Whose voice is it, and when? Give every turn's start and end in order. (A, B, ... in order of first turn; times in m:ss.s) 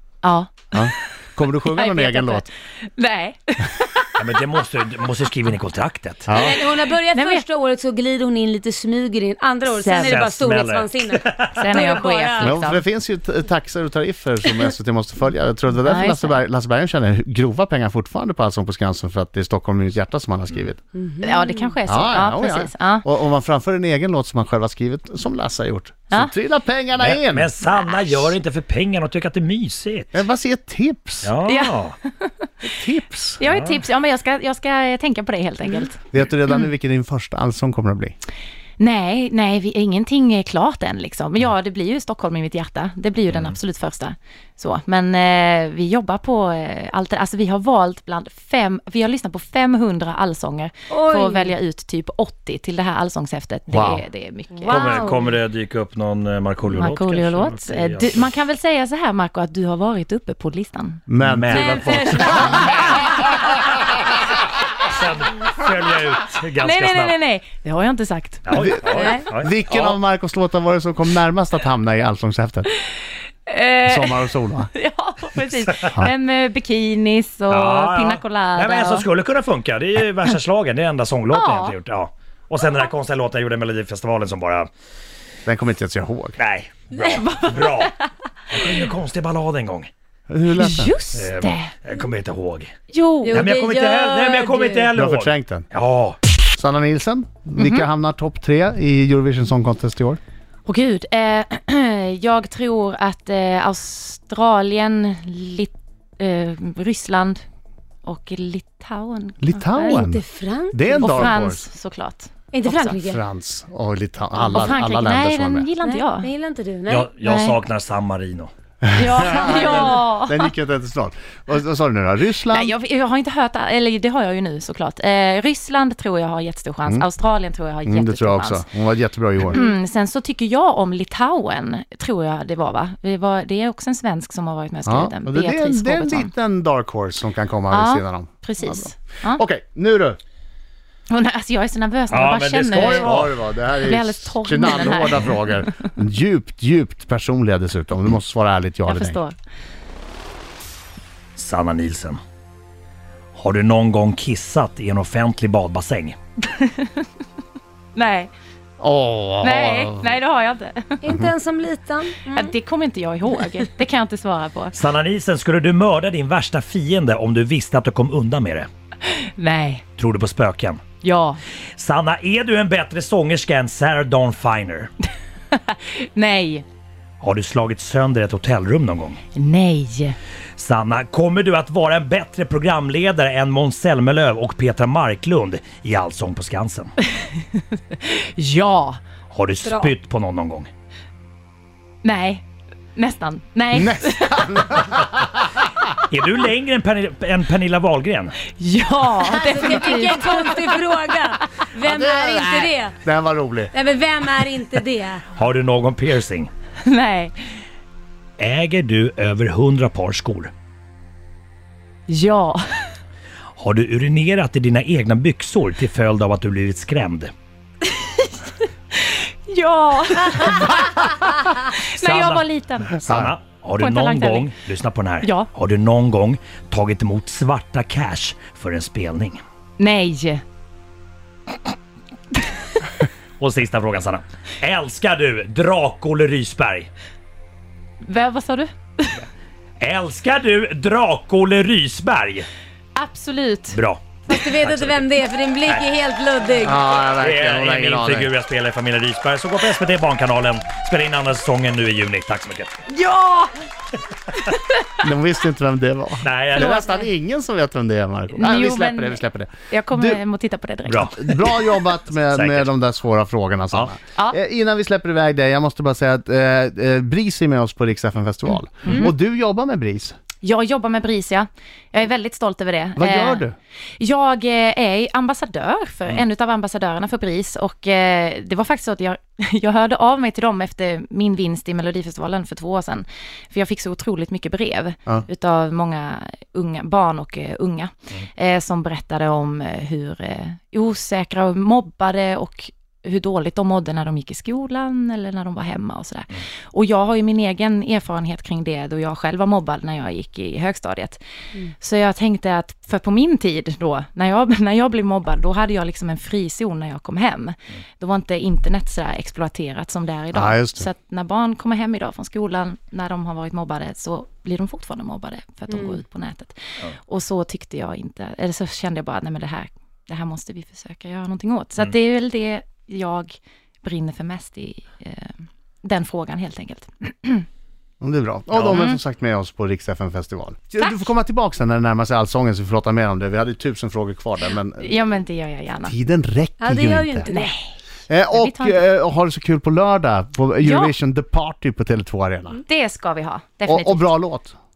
0:00.2-0:00.9 A
0:00.7-0:02.5 B
0:01.6-0:04.2 A
0:04.2-0:06.4 C
0:06.3-0:06.6 B
0:06.3-0:12.6 D
0:07.1-0:07.4 A
0:09.7-0:10.2 A
0:10.0-0:11.6 C
0:11.6-0:12.8 A
0:12.4-0:20.8 B
0:15.8-0:16.4 A
0:20.9-0:21.7 D
0:21.2-0:23.0 A
0:21.9-0:27.5 B
0:27.0-0:30.1 C
0:30.1-0:31.3 B
0:31.2-0:32.0 C
0:31.4-0:32.3 A
0:32.6-0:33.4 B
0:33.4-0:36.1 A
0:33.4-0:33.8 C
0:36.1-0:38.2 B
0:38.8-0:55.0 A
0:43.3-0:43.6 C
0:50.9-0:51.5 D
0:53.7-0:54.0 B
0:54.6-0:55.2 D
0:54.7-0:58.3 C
0:56.7-1:01.0 A
1:01.1-1:02.9 B
1:01.2-1:03.2 C
1:01.5-1:02.6 D
1:02.2-1:02.5 A
1:04.8-1:07.2 C
1:06.6-1:08.5 A
1:08.4-1:10.0 C
1:08.5-1:12.7 B
1:08.9-1:09.2 D
1:13.5-1:19.1 A
1:13.8-1:14.7 B
1:17.5-1:24.7 C
1:21.3-1:21.7 A
1:25.4-1:26.4 B
1:26.4-1:27.9 C
1:27.0-1:28.1 A
1:28.5-1:29.9 C
1:30.3-1:31.0 B
1:30.6-1:31.7 A
1:31.1-1:32.7 C
1:32.9-1:33.4 A
1:33.2-1:34.9 D
1:33.3-1:36.2 C
1:34.9-1:35.6 B
1:36.6-1:40.2 B
1:37.6-1:37.9 A
1:40.6-1:47.4 A
1:48.0-1:50.0 A
1:49.4-1:51.6 B
1:49.8-1:51.3 D
1:50.9-1:53.0 A
1:52.5-1:53.2 D
1:53.0-1:55.7 B
1:54.4-1:56.3 A
1:55.8-1:57.1 D
1:56.9-1:58.5 C
1:57.2-1:57.6 A
1:58.8-2:02.7 B
1:59.0-2:00.5 A
2:02.5-2:08.6 A
2:07.8-2:09.6 B
2:09.5-2:16.3 A
2:14.8-2:20.2 B
2:17.7-2:19.4 A
2:21.1-2:23.1 A
2:22.1-2:23.3 C
2:22.7-2:29.2 B
2:23.8-2:25.7 A
2:28.9-2:29.3 A
2:31.4-2:32.2 C
2:33.3-2:36.2 C
2:36.5-2:37.0 A
2:38.0-2:38.3 A
2:38.8-2:40.0 B
2:39.4-2:41.0 A
2:41.0-2:42.5 D
2:42.3-2:44.8 A
2:44.7-2:48.7 C
2:49.1-2:49.8 A
2:50.0-2:50.8 C
2:51.0-2:51.4 A
2:51.8-2:54.9 C
2:55.5-2:56.6 A
2:57.2-2:59.2 C
2:59.3-3:00.2 A
3:00.6-3:06.9 C
3:07.2-3:09.0 A
3:09.3-3:10.7 C
3:09.6-3:09.9 D
3:12.0-3:12.4 A
3:13.0-3:14.9 A
3:13.7-3:15.5 B
3:16.1-3:18.4 C
3:18.6-3:21.0 A
3:19.2-3:23.0 D
3:21.8-3:23.7 B
3:23.7-3:25.2 D
3:25.3-3:26.5 C
3:26.8-3:27.3 A
3:28.4-3:30.5 C
3:32.1-3:32.9 A
3:33.6-3:37.3 C
3:37.8-3:41.1 A
3:41.6-3:43.0 A
3:41.8-3:49.4 C
3:43.0-3:43.3 B
3:43.8-3:44.5 A
3:45.2-3:45.5 A
3:49.8-3:50.4 A
3:53.4-3:56.9 C
3:58.0-3:59.2 A
3:59.8-4:02.5 C
4:03.0-4:03.8 A
4:03.7-4:05.1 C
4:04.3-4:06.8 D
4:06.6-4:08.3 B
4:07.2-4:12.8 C
4:12.9-4:13.5 A
4:15.0-4:20.2 B
4:16.2-4:16.8 C
4:16.6-4:17.0 A
4:18.3-4:21.2 A
4:20.9-4:21.5 C
4:21.1-4:30.2 B
4:22.3-4:22.7 C
4:28.8-4:29.1 A
4:30.4-4:33.4 A
4:33.0-4:33.5 B
4:34.0-5:01.2 A
5:01.8-5:27.5 A
5:10.3-5:10.9 B
5:15.7-5:16.0 D
5:28.0-5:34.9 B
5:28.5-5:28.8 C
5:28.7-5:29.0 A
5:34.8-5:35.9 A
5:35.9-5:37.3 B
5:36.6-5:37.5 D
5:37.3-5:37.7 A
5:38.1-5:42.6 B
5:38.3-5:38.8 A
5:40.6-5:40.9 A
5:42.6-5:44.1 A
5:43.6-5:44.6 B